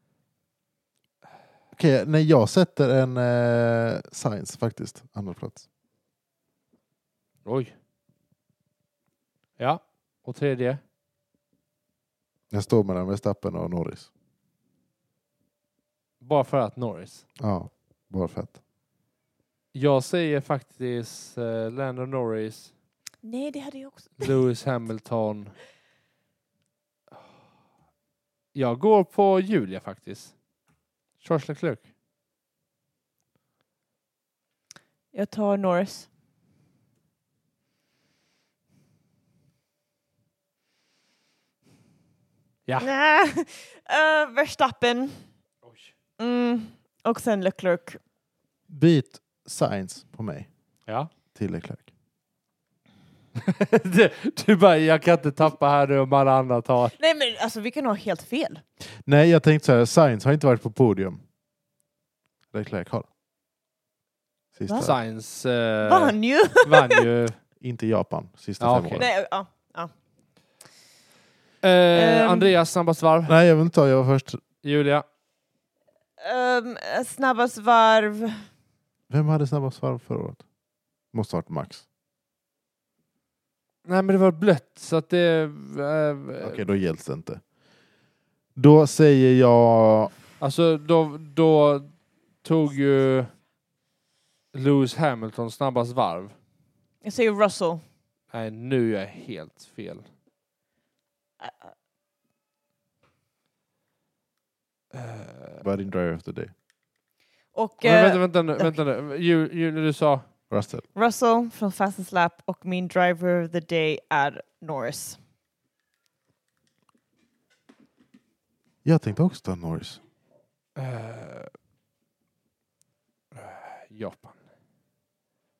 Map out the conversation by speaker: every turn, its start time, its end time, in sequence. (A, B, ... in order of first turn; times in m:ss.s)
0:01.7-0:05.6 A
0:07.4-0:07.7 B
0:09.6-0:10.8 B
0:12.5-0:14.1 A
0:16.2-0:17.2 B
0:17.4-0:18.6 A
0:19.7-0:22.7 B
0:23.2-0:24.3 C
0:24.2-0:25.6 B
0:28.5-0:30.3 B
0:31.2-0:31.8 B
0:35.1-0:36.1 C
0:42.8-0:45.2 C
0:45.6-0:45.9 B
0:46.2-0:48.0 C
0:48.7-0:50.5 A
0:51.3-0:51.9 A
0:53.4-0:57.0 B
0:57.0-0:58.6 C
0:59.0-1:01.2 A
1:02.5-1:03.1 A
1:04.5-1:05.0 A
1:04.6-1:05.0 C
1:04.8-1:07.4 B
1:05.8-1:07.0 C
1:07.6-1:09.1 A
1:08.6-1:09.1 B
1:08.9-1:09.9 C
1:11.6-1:13.3 B
1:11.9-1:12.5 C
1:13.2-1:14.4 A
1:14.6-1:15.0 B
1:16.2-1:18.4 C
1:19.1-1:20.4 A
1:21.1-1:21.8 A
1:23.8-1:26.6 B
1:26.4-1:27.4 A
1:28.6-1:30.1 A
1:30.4-1:33.3 B
1:34.5-1:36.3 B
1:37.0-1:37.8 C
1:38.3-1:40.0 B
1:41.4-1:41.7 C
1:44.9-1:45.6 B
1:45.6-1:46.5 A
1:47.5-1:48.7 C
1:47.8-1:50.2 B
1:50.5-1:50.8 A
1:50.9-1:55.2 C
1:58.8-2:00.0 A
2:00.8-2:01.5 B
2:03.3-2:04.4 B